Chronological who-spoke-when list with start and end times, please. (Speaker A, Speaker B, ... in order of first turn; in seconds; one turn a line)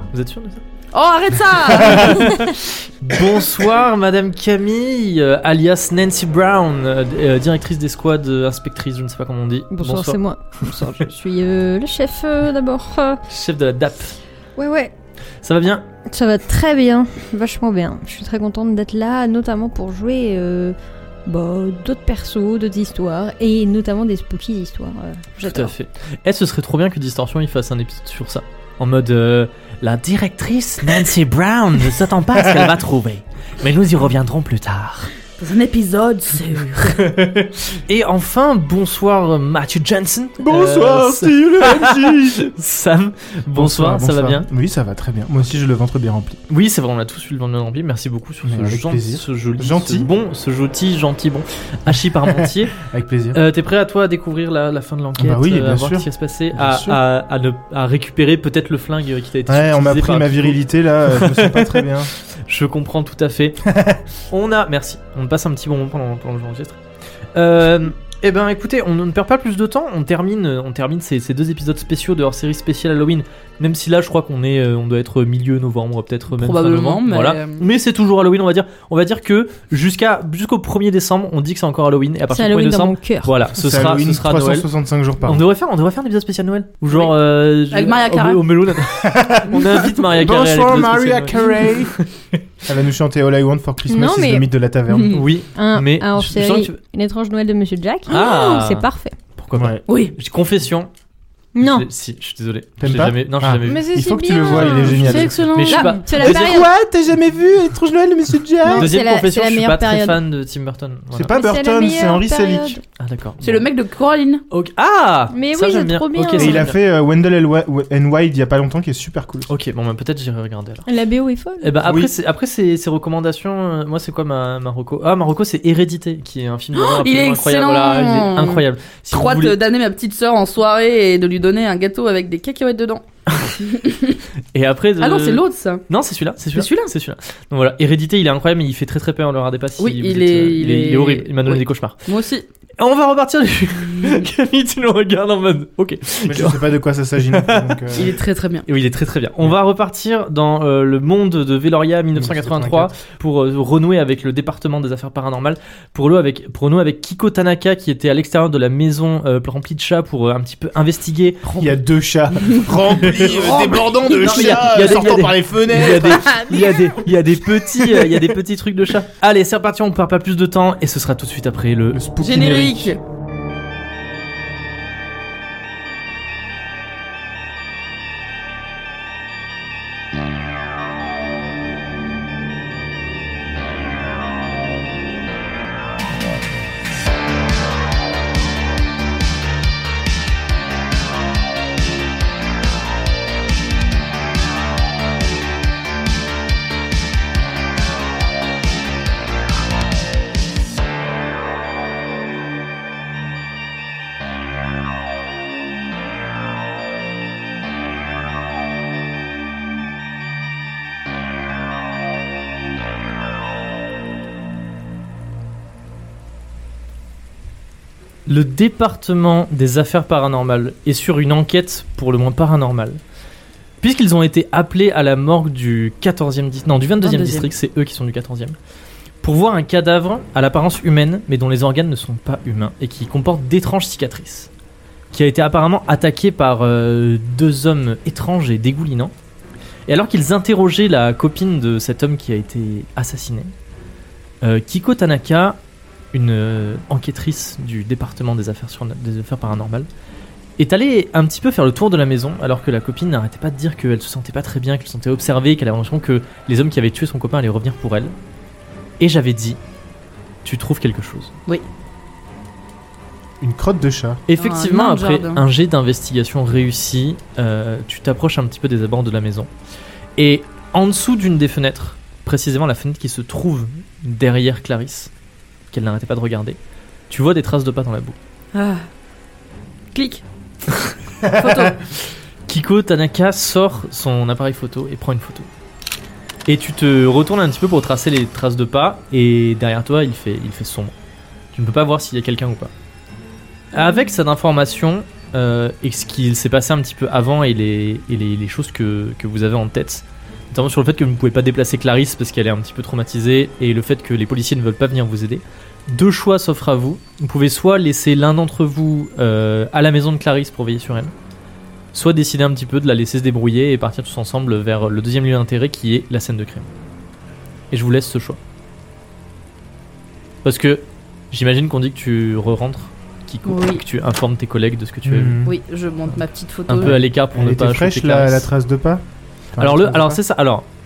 Speaker A: 0.1-0.6
Speaker B: 0.9-2.5
Speaker A: 1.7-10.2
Speaker C: 9.7-13.2
Speaker A: 13.3-14.2
Speaker C: 14.6-14.9
Speaker A: 15.4-15.8
Speaker C: 16.1-25.7
Speaker A: 25.4-35.1
Speaker B: 35.4-37.1
Speaker A: 37.0-44.5
Speaker D: 40.4-42.4
Speaker D: 43.5-46.4
Speaker A: 46.5-63.7
Speaker D: 48.4-50.1
Speaker D: 52.2-53.4
Speaker D: 55.2-57.0
Speaker D: 59.5-62.1
Speaker D: 63.7-64.0
Speaker A: 64.3-66.8
Speaker A: 67.3-84.7
Speaker B: 76.3-77.7
Speaker C: 82.3-83.3
Speaker D: 83.5-85.4
Speaker A: 85.2-92.4
Speaker B: 86.9-87.1
Speaker B: 87.7-88.4
Speaker D: 88.9-92.0
Speaker B: 89.5-90.0
Speaker D: 92.7-95.3
Speaker C: 93.8-94.5
Speaker B: 94.9-95.2
Speaker A: 95.1-96.8
Speaker C: 95.5-99.1
Speaker A: 98.1-98.8
Speaker A: 99.4-100.9
Speaker D: 99.5-99.8
Speaker B: 99.9-100.1
Speaker C: 101.5-101.8
Speaker A: 101.6-103.8
Speaker D: 102.8-105.5
Speaker C: 103.6-106.7
Speaker A: 104.4-106.7
Speaker B: 104.9-106.1
Speaker D: 106.1-108.9
Speaker C: 108.6-110.2
Speaker A: 108.7-111.3
Speaker D: 111.1-112.8
Speaker C: 111.3-112.8
Speaker A: 113.0-113.7
Speaker B: 113.4-114.4
Speaker A: 114.5-116.8
Speaker C: 115.3-116.7
Speaker D: 116.3-119.5
Speaker A: 119.5-120.9
Speaker C: 120.8-121.7
Speaker A: 121.6-129.6
Speaker D: 121.8-122.1
Speaker B: 126.7-133.0
Speaker B: 133.6-134.2
Speaker A: 134.5-142.1
Speaker B: 135.0-135.8
Speaker B: 136.5-136.9
Speaker B: 139.8-142.5
Speaker A: 142.8-148.1
Speaker B: 143.9-144.2
Speaker D: 146.2-148.2
Speaker B: 147.9-148.7
Speaker A: 148.6-161.8
Speaker D: 152.1-152.9
Speaker D: 161.5-166.4
Speaker B: 162.5-165.1
Speaker A: 163.0-172.9
Speaker B: 165.9-167.0
Speaker D: 171.9-172.7
Speaker B: 172.2-173.0
Speaker A: 218.2-223.0
Speaker A: 223.8-228.6
Speaker B: 227.0-227.5
Speaker A: 229.2-234.5
Speaker A: 235.1-239.1
Speaker A: 239.9-243.5
Speaker A: 244.4-245.6
Speaker A: 246.1-249.9
Speaker A: 250.6-258.1
Speaker A: 259.0-259.6
Speaker A: 260.4-261.3
Speaker D: 263.4-264.2
Speaker A: 264.3-269.5
Speaker B: 264.4-265.4
Speaker A: 270.1-275.1
Speaker A: 275.7-276.6
Speaker A: 277.1-278.1
Speaker B: 278.5-278.9
Speaker B: 279.9-280.2
Speaker B: 281.2-281.8
Speaker A: 282.5-285.5
Speaker A: 286.4-290.9
Speaker A: 291.5-292.7
Speaker A: 293.7-311.1
Speaker A: 311.9-316.7
Speaker A: 317.7-318.4
Speaker A: 320.4-325.4
Speaker B: 323.4-323.8
Speaker D: 325.0-325.6
Speaker B: 325.4-326.9
Speaker A: 326.7-328.5
Speaker D: 326.8-329.0
Speaker D: 329.6-330.2
Speaker A: 329.6-330.6